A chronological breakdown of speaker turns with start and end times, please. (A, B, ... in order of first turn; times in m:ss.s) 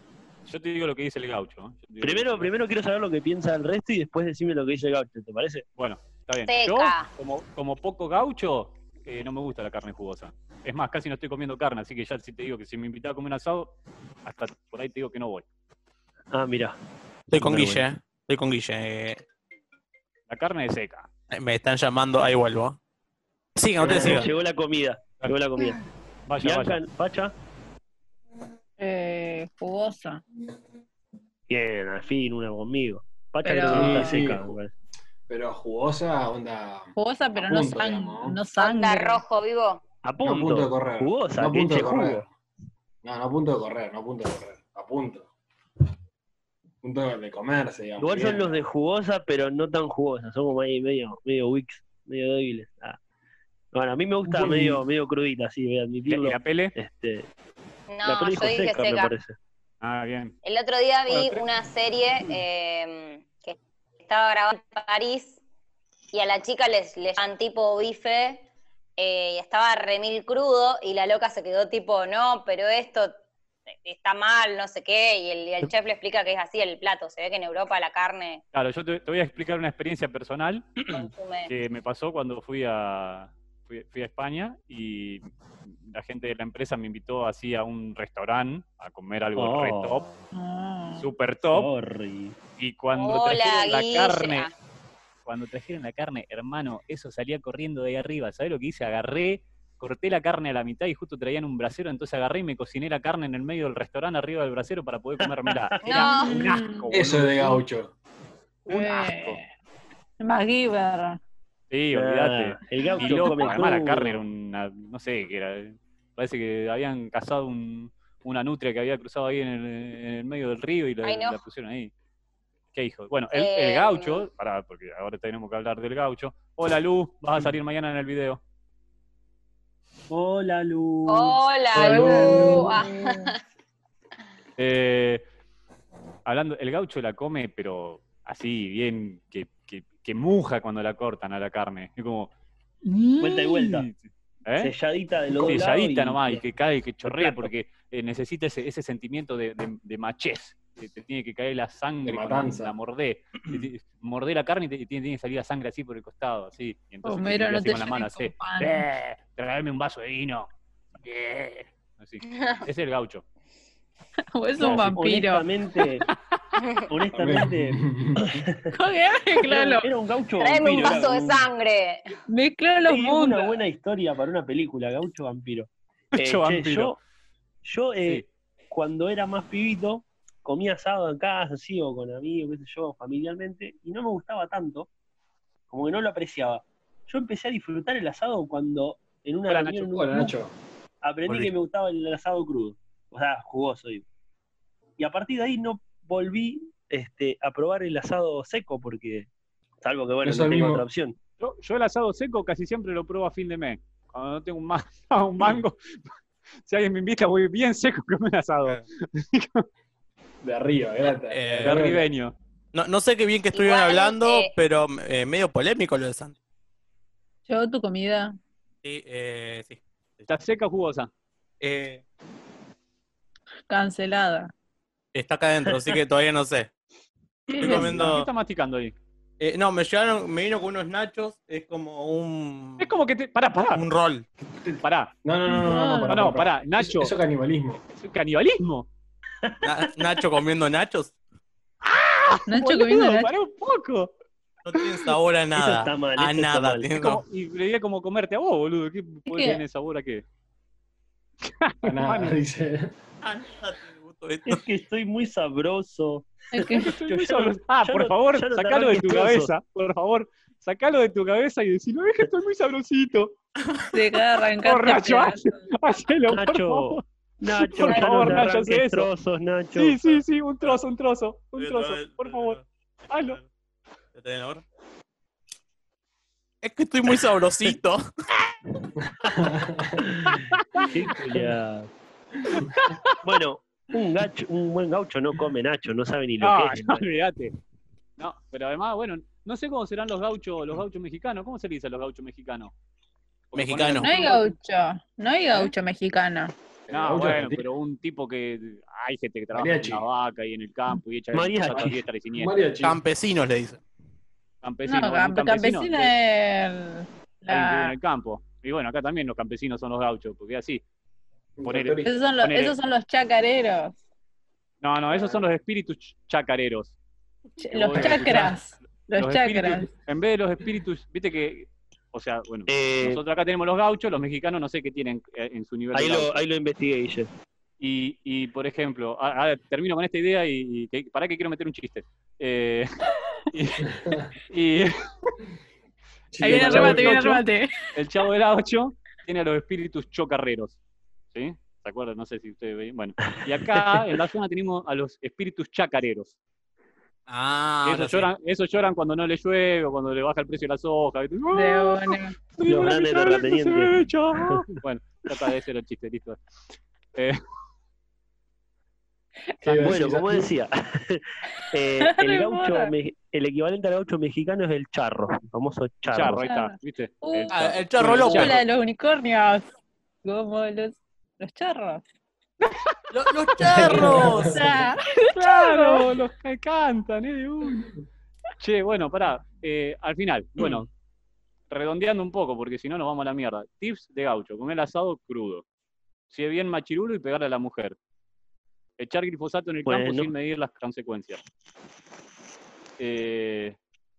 0:00.4-0:02.6 A
0:02.0-0:05.6 B
0:05.8-0:15.4 A
0:06.4-0:07.1 C
0:16.3-0:16.8 B
0:17.3-0:19.2 D
0:17.3-0:17.9 B
0:20.3-0:21.1 A
0:21.3-0:22.8 D
0:23.6-0:24.3 D
0:23.8-0:25.8 B
0:26.3-0:26.8 A
0:26.4-0:27.3 B
0:28.8-0:30.2 E
0:31.5-0:34.7 B
0:33.4-0:34.2 E
0:33.7-0:34.6 F
0:35.3-0:38.4 F
0:37.0-0:39.2 E
0:38.6-0:39.8 C
0:40.0-0:42.2 B
0:40.2-0:42.3 F
0:43.0-0:45.3 F
0:46.8-0:48.6 F
0:48.0-0:53.0 B
0:53.7-0:57.3 B
0:54.3-0:54.8 F
0:56.0-0:56.7 A
0:57.9-0:59.1 C
0:58.0-0:59.4 B
0:59.8-1:00.3 A
1:00.4-1:05.4 C
1:01.1-1:01.4 A
1:06.1-1:08.4 C
1:09.0-1:13.1 C
1:13.7-1:18.4 C
1:18.5-1:20.7 A
1:20.9-1:21.5 C
1:21.5-1:30.0 A
1:29.3-1:30.2 B
1:30.3-1:31.1 E
1:31.0-1:31.7 A
1:31.5-1:32.4 B
1:32.6-1:34.5 A
1:32.9-1:34.5 C
1:35.2-1:47.6 A
1:45.2-1:45.9 B
1:45.8-1:46.4 C
1:45.9-1:46.9 E
1:46.9-1:47.9 F
1:48.7-1:49.4 A
1:48.7-1:49.5 E
1:50.2-1:51.2 E
1:51.7-2:01.9 A
1:51.9-1:54.2 B
1:52.9-1:53.6 E
2:01.0-2:01.4 C
2:02.7-2:08.4 A
2:03.3-2:04.3 C
2:10.1-2:12.8 B
2:11.1-2:13.4 C
2:11.7-2:13.3 E
2:14.6-2:15.2 A
2:16.2-2:22.3 A
2:22.8-2:24.7 A
2:23.2-2:23.9 B
2:24.6-2:26.4 B
2:25.3-2:40.5 A
2:27.0-2:27.5 B
2:32.0-2:32.7 F
2:37.0-2:38.8 E
2:41.0-2:43.2 A
2:44.3-2:45.5 E
2:44.6-2:44.9 A
2:44.7-2:46.0 B
2:46.6-2:46.9 C
2:46.9-2:48.7 B
2:47.1-2:48.4 F
2:48.7-2:49.9 E
2:49.4-2:51.5 B
2:50.4-2:52.0 C
2:52.3-2:53.6 E
2:52.8-2:57.0 B
2:56.1-2:57.0 A
2:57.6-3:04.9 B
3:05.7-3:10.3 B
3:09.5-3:09.9 A
3:09.9-3:10.5 F
3:11.0-3:14.0 B
3:15.0-3:19.3 B
3:19.8-3:21.1 B
3:20.2-3:20.8 F
3:21.4-3:26.0 A
3:26.6-3:29.6 A
3:30.4-3:32.0 F
3:31.3-3:31.9 D
3:31.6-3:32.3 A
3:32.7-3:36.3 D
3:33.5-3:34.5 C
3:37.5-3:38.4 E
3:38.8-3:40.2 D
3:40.3-3:41.1 A
3:41.6-3:42.0 D
3:43.7-3:44.5 E
3:45.1-3:46.7 D
3:47.5-3:48.1 E
3:47.6-3:48.3 D
3:47.6-3:48.9 A
3:49.4-3:52.9 D
3:52.8-3:53.8 A
3:53.7-3:54.2 D
3:54.4-3:57.8 F
3:54.8-3:55.1 A
3:55.5-3:56.3 E
3:56.1-3:57.1 A
3:57.9-3:58.9 A
3:59.4-3:59.7 B
3:59.6-4:01.1 D
4:01.8-4:04.1 A
4:02.5-4:03.3 E
4:04.6-4:07.2 D
4:05.6-4:06.9 B
4:07.0-4:10.2 A
4:09.3-4:09.6 E
4:11.4-4:12.4 A
4:11.8-4:12.9 F
4:13.2-4:14.6 D
4:14.4-4:19.5 B
4:16.5-4:17.0 E
4:16.7-4:23.3 A
4:23.9-4:25.4 E
4:24.6-4:27.0 A
4:26.3-4:30.2 B
4:27.5-4:29.1 A
4:29.7-4:33.4 A
4:31.6-4:33.4 D
4:34.1-4:34.6 D
4:36.6-4:38.0 D
4:39.2-4:40.4 F
4:40.2-4:41.6 A
4:40.9-4:41.9 B
4:42.5-4:43.4 A
4:43.2-4:47.0 B
4:46.4-4:47.5 A
4:48.2-4:52.7 A
4:53.5-4:54.5 A
4:53.5-4:54.1 D
4:54.0-4:56.5 E
4:56.9-4:57.6 F
4:56.9-5:02.6 A
4:59.5-5:00.0 F
5:01.3-5:02.0 B
5:02.3-5:03.0 F
5:02.8-5:03.8 D
5:04.6-5:06.1 A
5:04.9-5:07.9 E
5:07.5-5:10.8 A
5:11.6-5:12.1 F
5:11.6-5:12.7 A
5:12.0-5:13.9 E
5:14.8-5:16.9 A
5:15.1-5:15.4 F
5:17.6-5:19.9 E
5:17.7-5:18.5 A
5:18.0-5:18.5 F
5:19.2-5:26.5 A
5:22.7-5:23.2 B
5:25.9-5:27.3 B
5:27.8-5:32.9 A
5:33.5-5:34.9 A
5:33.8-5:34.3 F
5:36.3-5:37.4 F
5:36.4-5:37.8 E
5:36.4-5:37.4 A
5:37.9-5:40.8 A
5:41.3-5:46.3 A
5:43.7-5:44.0 B
5:47.3-5:48.3 D
5:47.8-5:56.4 A
5:51.5-5:52.4 E
5:52.6-5:54.6 B
5:57.1-5:57.4 A
5:59.6-6:00.5 F
5:59.8-6:06.4 B
6:02.0-6:02.9 E
6:06.1-6:08.6 A
6:06.2-6:09.7 E
6:07.5-6:08.6 D
6:10.2-6:12.0 E
6:13.1-6:14.6 D
6:13.6-6:14.7 F
6:13.8-6:16.1 E
6:15.3-6:17.8 A
6:18.6-6:20.9 A
6:21.7-6:25.6 A
6:26.3-6:28.0 A
6:29.0-6:31.4 A
6:29.8-6:30.3 B
6:33.0-6:33.8 A